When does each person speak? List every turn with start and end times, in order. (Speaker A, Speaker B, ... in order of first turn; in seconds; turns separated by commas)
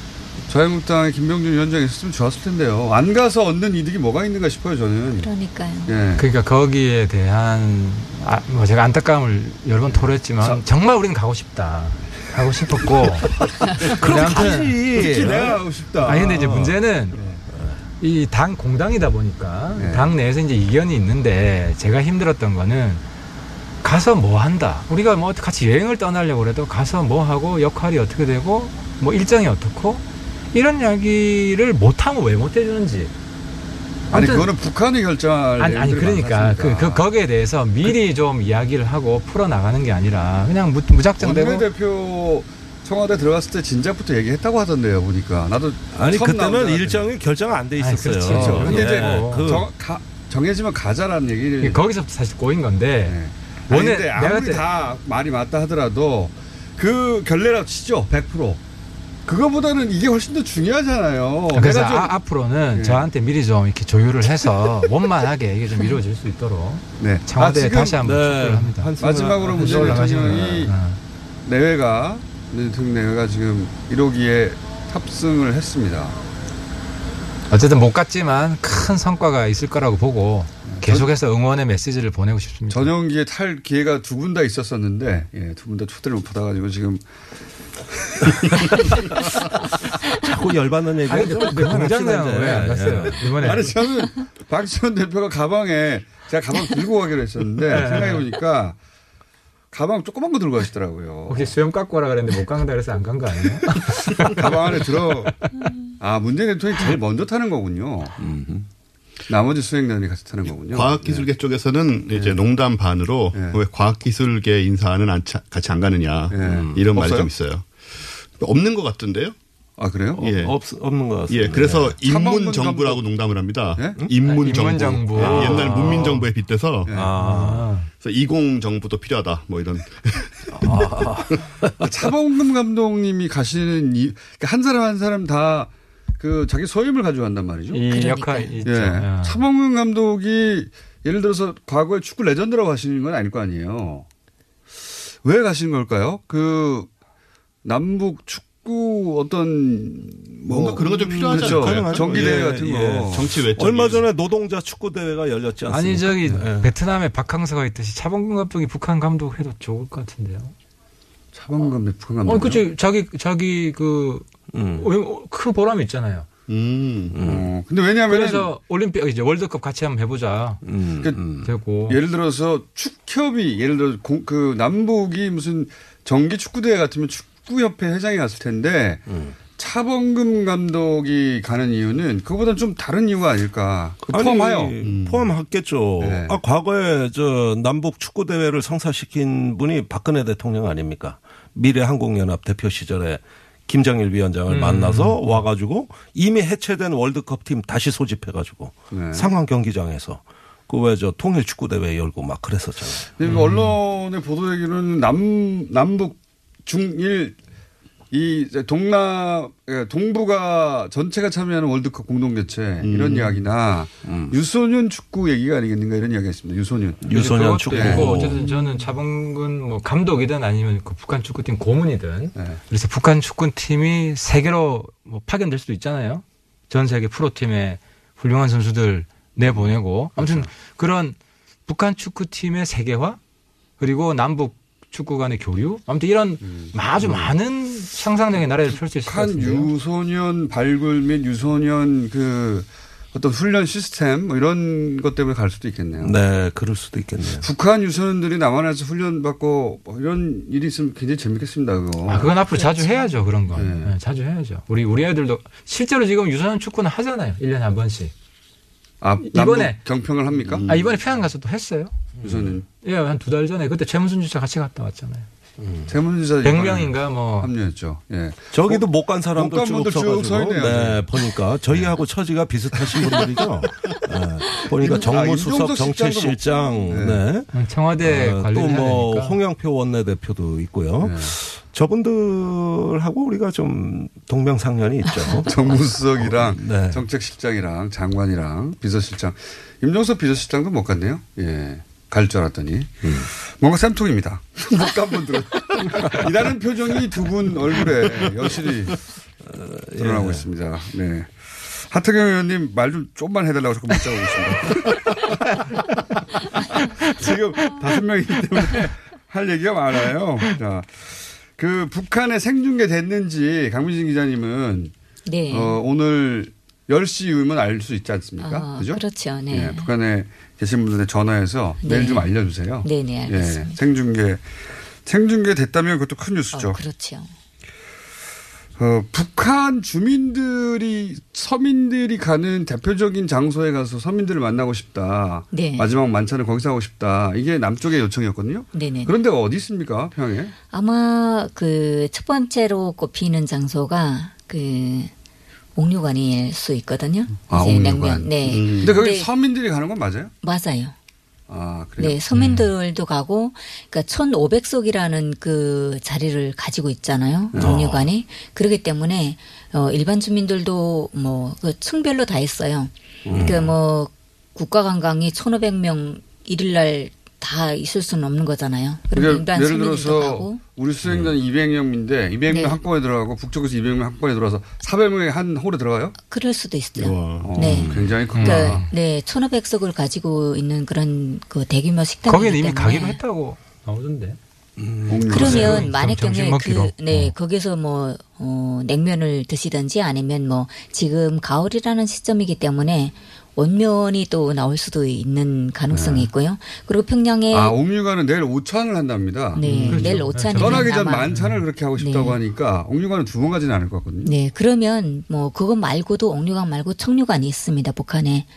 Speaker A: 0.5-5.3, Speaker B: 5.2-5.9, Speaker A: 5.9-6.2, Speaker C: 6.2-14.8, Speaker A: 9.9-10.6, Speaker D: 13.8-15.6, Speaker A: 14.9-17.4, Speaker C: 16.1-17.2, Speaker D: 17.5-17.8, Speaker C: 18.0-23.0, Speaker A: 19.8-20.1, Speaker C: 23.8-33.1, Speaker C: 34.1-34.5, Speaker A: 34.1-37.0, Speaker C: 35.6-41.6, Speaker A: 41.2-47.1, Speaker D: 45.9-49.7, Speaker C: 47.8-49.5, Speaker A: 48.2-51.8, Speaker C: 51.6-53.2, Speaker A: 53.1-58.6, Speaker C: 53.7-54.6, Speaker A: 59.3-62.1, Speaker C: 61.5-68.9, Speaker A: 62.7-63.0, Speaker A: 67.0-68.0, Speaker D: 68.0-70.7, Speaker A: 69.0-70.7, Speaker C: 69.5-71.0, Speaker A: 71.4-76.2, Speaker C: 77.5-82.9, Speaker A: 80.6-81.1, Speaker A: 82.7-87.0, Speaker A: 87.9-89.1, Speaker D: 90.0-93.3, Speaker C: 91.1-93.7, Speaker A: 93.3-98.8, Speaker C: 97.7-98.3, Speaker A: 99.7-101.5, Speaker C: 101.3-104.4, Speaker A: 104.2-105.4, Speaker A: 106.0-108.2, Speaker D: 108.2-108.7, Speaker A: 109.3-111.3, Speaker E: 110.5-119.4, Speaker A: 112.1-112.4, Speaker A: 113.3-113.6, Speaker A: 116.3-117.3, Speaker D: 116.4-116.8, Speaker A: 119.8-120.3, Speaker E: 120.2-120.6, Speaker D: 120.2-122.0, Speaker E: 121.3-126.9, Speaker A: 122.0-123.0, Speaker A: 123.8-124.0, Speaker C: 124.2-126.3, Speaker A: 125.2-125.8, Speaker D: 125.3-125.9, Speaker A: 126.9-127.1, Speaker D: 126.9-127.7, Speaker C: 127.2-127.9, Speaker E: 127.9-130.7, Speaker D: 130.5-131.9, Speaker A: 131.8-137.8, Speaker C: 137.7-139.4, Speaker B: 137.8-138.6, Speaker A: 138.6-144.1, Speaker A: 145.2-146.9, Speaker A: 147.6-153.3, Speaker E: 150.5-152.5, Speaker D: 150.8-156.7, Speaker E: 153.1-154.0, Speaker C: 155.7-160.5, Speaker A: 161.3-162.6, Speaker C: 162.2-166.3, Speaker D: 164.5-164.9, Speaker E: 166.5-167.2, Speaker D: 167.1-167.5, Speaker A: 167.2-168.5, Speaker C: 168.1-170.6, Speaker D: 170.6-171.5, Speaker C: 171.4-172.0, Speaker A: 171.9-184.8, Speaker D: 179.1-179.4, Speaker D: 184.1-203.1, Speaker E: 184.8-185.2, Speaker A: 186.0-186.4, Speaker C: 194.5-195.4, Speaker A: 198.9-199.3, Speaker A: 203.2-207.4, Speaker C: 203.3-203.8, Speaker A: 208.1-218.4, Speaker E: 212.8-213.4, Speaker D: 217.0-218.4, Speaker C: 217.1-233.2, Speaker A: 222.4-222.6, Speaker A: 230.2-230.4, Speaker C: 233.8-239.7, Speaker A: 236.4-236.7, Speaker A: 238.7-246.1, Speaker D: 246.0-247.4, Speaker A: 247.4-252.3, Speaker C: 252.1-258.1, Speaker B: 252.5-253.2, Speaker A: 253.5-253.9, Speaker A: 259.0-260.7, Speaker C: 259.3-259.8, Speaker E: 260.4-260.9, Speaker C: 260.6-262.0, Speaker D: 262.2-262.6, Speaker A: 262.2-262.6, Speaker C: 262.8-265.3, Speaker D: 265.6-265.9, Speaker A: 265.9-271.1, Speaker C: 266.4-267.5, Speaker D: 268.5-287.0, Speaker A: 274.8-277.2, Speaker C: 277.5-279.4, Speaker A: 281.0-281.3, Speaker A: 285.4-299.0, Speaker D: 293.0-293.3, Speaker D: 298.1-298.5, Speaker D: 299.4-300.5, Speaker A: 300.0-305.7, Speaker A: 306.8-314.9, Speaker B: 315.3-315.8, Speaker A: 315.5-324.4, Speaker B: 318.4-319.9, Speaker B: 321.8-322.3, Speaker B: 322.8-323.8, Speaker A: 325.1-326.8, Speaker B: 326.5-327.3, Speaker A: 328.8-340.6, Speaker B: 335.5-335.9, Speaker B: 338.7-339.1, Speaker B: 340.7-345.1, Speaker B: 345.8-349.3, Speaker A: 347.5-350.3, Speaker E: 348.4-348.9, Speaker B: 350.4-350.9, Speaker A: 351.5-352.2, Speaker B: 352.0-370.6, Speaker C: 352.3-352.7, Speaker A: 357.5-357.9, Speaker D: 357.6-358.1, Speaker A: 363.2-363.6, Speaker D: 363.3-363.7, Speaker A: 369.1-376.2, Speaker D: 371.1-371.3, Speaker B: 372.5-372.8, Speaker B: 376.3-383.2, Speaker E: 376.9-377.8, Speaker A: 377.4-378.9, Speaker D: 377.6-378.2, Speaker C: 378.3-378.9, Speaker C: 382.3-384.4, Speaker D: 384.8-385.9, Speaker A: 385.1-385.9, Speaker B: 385.3-397.8, Speaker C: 385.4-387.4, Speaker A: 395.9-396.3, Speaker A: 397.5-404.3, Speaker B: 399.6-401.3, Speaker C: 399.8-401.6, Speaker B: 402.0-402.4, Speaker B: 404.2-408.5